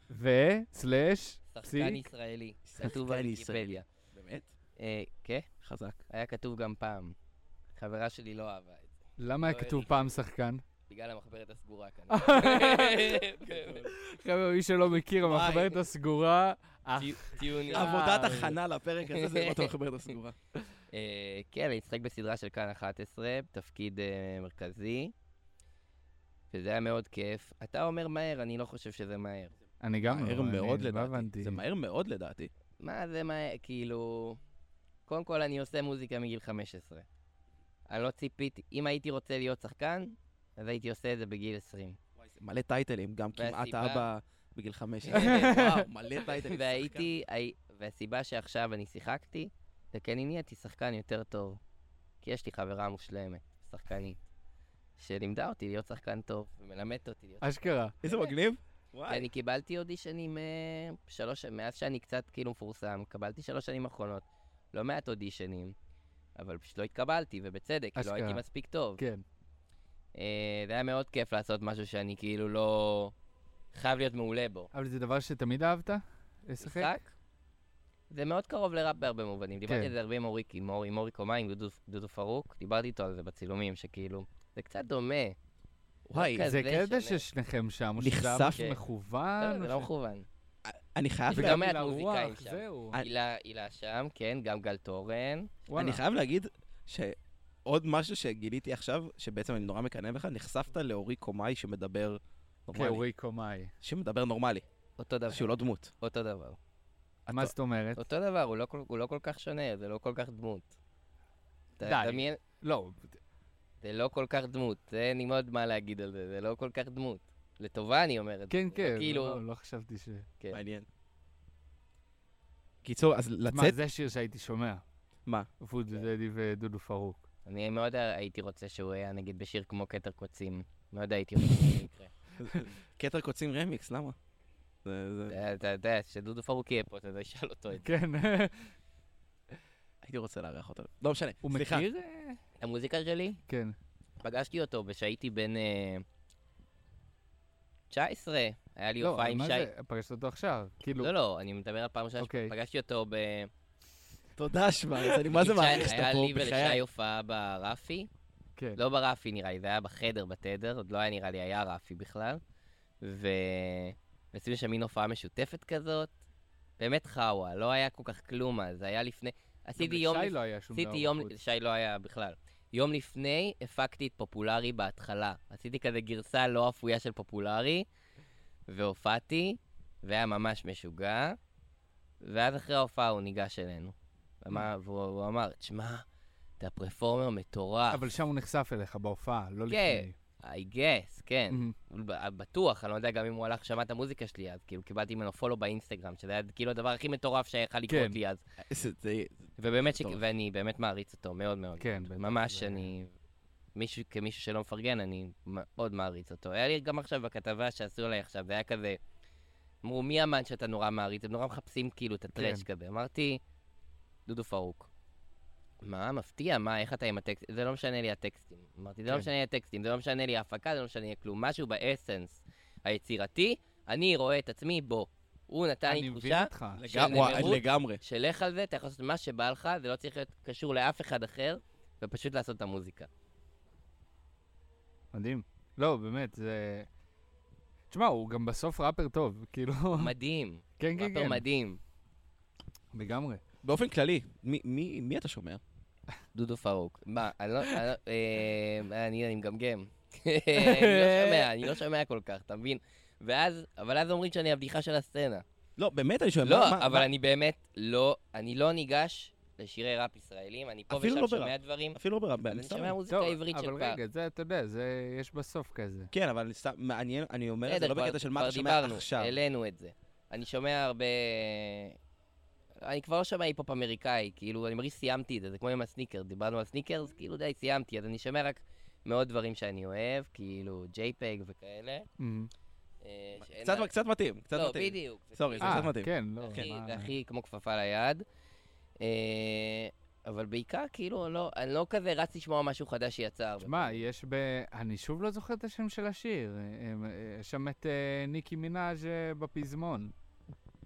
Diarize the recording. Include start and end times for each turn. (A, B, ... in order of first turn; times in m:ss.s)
0:00.1-0:02.1 A
0:01.5-0:03.9 B
0:02.7-0:04.5 C
0:04.8-0:05.5 B
0:05.6-0:06.0 C
0:06.1-0:07.2 B
0:07.8-0:10.2 B
0:09.2-0:10.6 A
0:10.9-0:13.9 B
0:12.1-0:13.2 A
0:13.4-0:13.9 C
0:13.8-0:18.6 A
0:15.2-0:15.8 C
0:17.0-0:18.0 B
0:17.7-0:20.4 C
0:19.1-0:19.7 B
0:20.9-0:25.1 B
0:26.5-0:29.5 B
0:29.8-0:31.6 A
0:30.1-0:32.5 C
0:32.8-0:34.4 B
0:35.1-0:37.1 B
0:37.9-0:42.0 B
0:42.2-0:47.1 C
0:43.4-0:44.1 B
0:45.1-0:51.6 B
0:45.2-0:45.8 A
0:52.2-0:54.2 B
0:55.0-0:58.2 B
0:57.4-0:58.0 A
0:58.0-0:59.3 C
0:59.1-1:05.8 B
1:06.4-1:09.0 B
1:08.0-1:08.4 A
1:09.0-1:09.2 A
1:10.2-1:13.1 B
1:13.7-1:14.7 B
1:14.7-1:16.9 A
1:16.6-1:17.1 B
1:18.1-1:25.4 B
1:19.7-1:19.9 A
1:26.1-1:26.5 C
1:26.2-1:27.2 B
1:26.4-1:29.9 A
1:28.0-1:28.7 C
1:28.5-1:28.8 B
1:29.4-1:30.3 B
1:30.6-1:31.6 C
1:31.3-1:35.5 B
1:31.3-1:33.0 A
1:35.7-1:36.0 A
1:35.7-1:43.0 C
1:42.7-1:43.7 A
1:43.8-1:44.6 C
1:45.0-1:46.6 B
1:45.3-1:45.9 C
1:47.3-1:47.5 C
1:47.3-1:48.0 A
1:48.0-1:50.8 B
1:51.8-1:52.4 B
1:51.8-1:53.2 A
1:53.8-1:59.4 B
1:58.5-2:00.3 A
2:00.5-2:00.9 C
2:02.8-2:03.8 C
2:03.5-2:04.8 A
2:05.6-2:07.2 A
2:07.5-2:12.1 B
2:12.4-2:14.2 C
2:14.8-2:15.4 C
2:15.3-2:17.9 B
2:17.8-2:18.7 A
2:20.0-2:21.9 C
2:21.4-2:22.4 A
2:22.6-2:23.4 B
2:23.5-2:23.8 A
2:24.2-2:26.0 B
2:27.9-2:29.7 B
2:29.0-2:31.1 A
2:31.0-2:33.5 B
2:32.2-2:32.5 A
2:34.4-2:36.8 C
2:35.3-2:38.1 B
2:38.8-2:42.4 B
2:43.0-2:46.2 B
2:46.8-2:57.9 B
2:49.8-2:51.3 A
2:58.7-3:01.4 B
3:02.2-3:06.0 B
3:06.6-3:08.1 B
3:07.9-3:10.2 A
3:09.7-3:18.4 B
3:17.9-3:18.2 A
3:18.6-3:20.2 C
3:19.6-3:23.1 B
3:21.8-3:22.9 A
3:23.8-3:29.0 B
3:29.8-3:33.4 B
3:32.4-3:32.6 A
3:34.3-3:34.9 B
3:35.8-3:53.1 B
3:45.8-3:47.6 A
3:46.8-3:48.0 C
3:55.1-3:56.9 A
3:57.9-4:00.1 A
3:59.9-4:01.8 B
4:00.8-4:01.4 A
4:02.9-4:03.4 A
4:03.6-4:05.6 C
4:06.3-4:15.4 B
4:10.6-4:11.7 A
4:15.8-4:17.1 C
4:16.4-4:24.0 B
4:20.9-4:23.0 C
4:23.1-4:26.1 A
4:26.1-4:29.4 C
4:27.7-4:32.0 B
4:32.8-4:42.1 B
4:42.2-4:42.5 A
4:43.0-4:43.9 B
4:43.4-4:46.1 C
4:44.5-4:48.2 B
4:45.6-4:47.1 A
4:49.0-4:54.0 B
4:53.6-5:00.1 A